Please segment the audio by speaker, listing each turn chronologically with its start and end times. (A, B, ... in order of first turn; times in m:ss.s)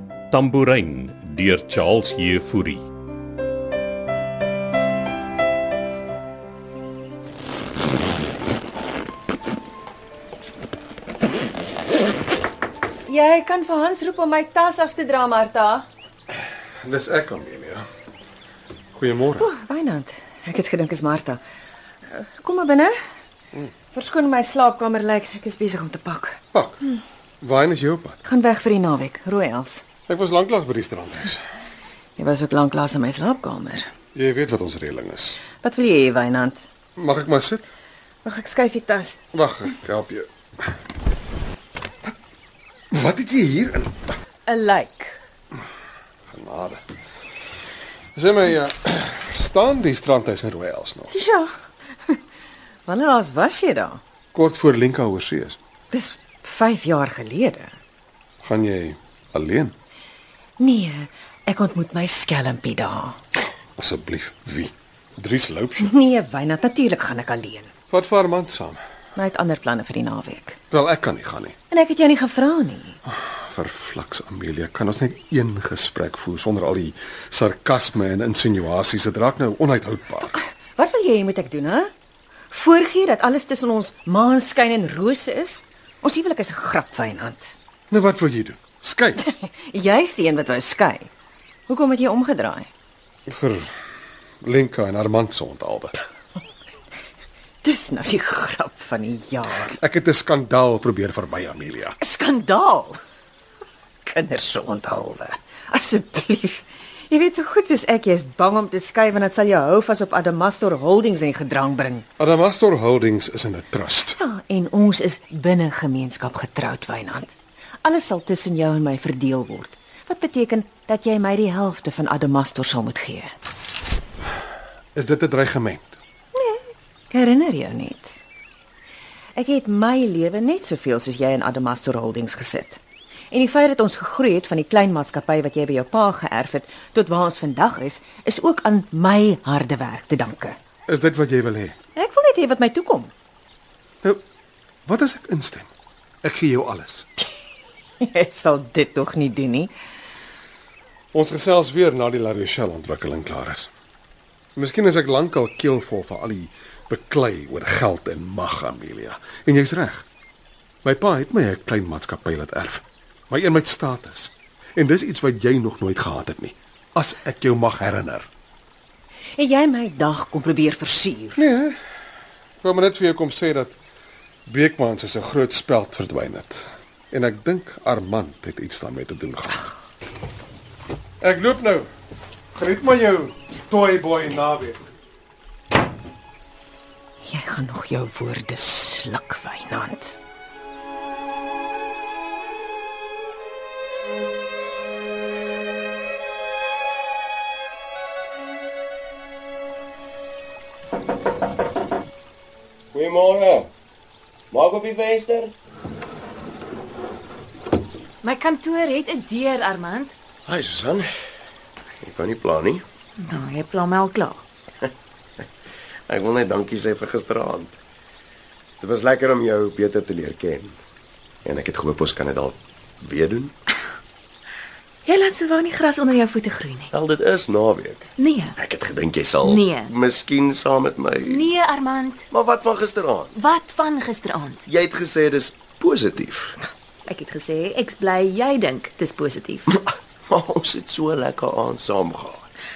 0:00.3-0:02.9 A
0:13.0-0:15.8 B
0:16.8-0:17.8 C
0:18.9-0:19.5 C
0:19.4-0:21.4 B
0:22.1-0:23.0 B
0:23.9-0:26.4 B
0:26.5-0:26.8 C
0:27.4-0:28.2 C
0:28.2-0:29.8 B
0:30.1-0:31.4 C
0:32.2-0:33.9 B
0:34.1-0:35.4 C
0:35.6-0:36.6 B
0:37.0-0:37.7 C
0:38.2-0:39.2 B
0:39.3-0:40.3 C
0:42.9-0:44.1 C
0:44.5-0:45.2 B
0:46.3-0:46.8 C
0:48.1-0:51.1 C
0:51.1-0:51.5 B
0:52.9-0:54.0 B
0:54.3-0:55.6 C
0:55.9-0:57.7 B
0:58.4-0:59.7 C
1:00.6-1:03.2 B
1:03.8-1:05.9 C
1:05.8-1:07.7 B
1:07.9-1:08.8 C
1:09.2-1:10.6 B
1:10.7-1:11.5 C
1:11.7-1:13.0 B
1:13.1-1:20.3 C
1:20.3-1:21.9 B
1:22.5-1:27.5 B
1:27.9-1:29.2 C
1:29.2-1:31.1 B
1:31.7-1:32.7 B
1:33.3-1:33.7 C
1:34.4-1:35.9 C
1:37.6-1:39.7 B
1:39.8-1:41.9 C
1:42.0-1:43.0 B
1:44.0-1:52.0 B
1:52.2-1:54.1 C
1:54.1-2:03.3 B
2:04.9-2:06.0 C
2:06.3-2:08.2 B
2:09.3-2:20.6 B
2:20.9-2:21.8 C
2:22.0-2:23.1 B
2:24.8-2:25.7 C
2:26.2-2:27.0 C
2:28.0-2:29.7 B
2:31.1-2:33.7 C
2:34.6-2:40.0 C
2:40.8-2:48.3 C
2:49.4-2:51.4 B
2:51.4-2:51.8 C
2:52.6-2:53.8 C
2:54.5-2:59.6 C
3:01.2-3:01.9 C
3:02.5-3:04.8 C
3:07.2-3:10.2 B
3:22.9-3:23.7 D
3:24.5-3:25.5 D
3:28.2-3:30.1 E
3:30.4-3:31.1 D
3:32.0-3:32.8 D
3:33.2-3:34.4 E
3:36.1-3:37.7 D
3:38.8-3:40.8 D
3:41.4-3:43.5 D
3:45.0-3:46.9 E
3:46.9-3:51.5 D
3:48.2-3:48.6 E
3:49.4-3:49.9 E
3:51.3-3:52.3 E
3:52.3-3:53.4 D
3:53.3-3:54.6 E
3:54.6-3:56.6 D
3:57.0-3:59.7 E
3:59.7-4:02.5 D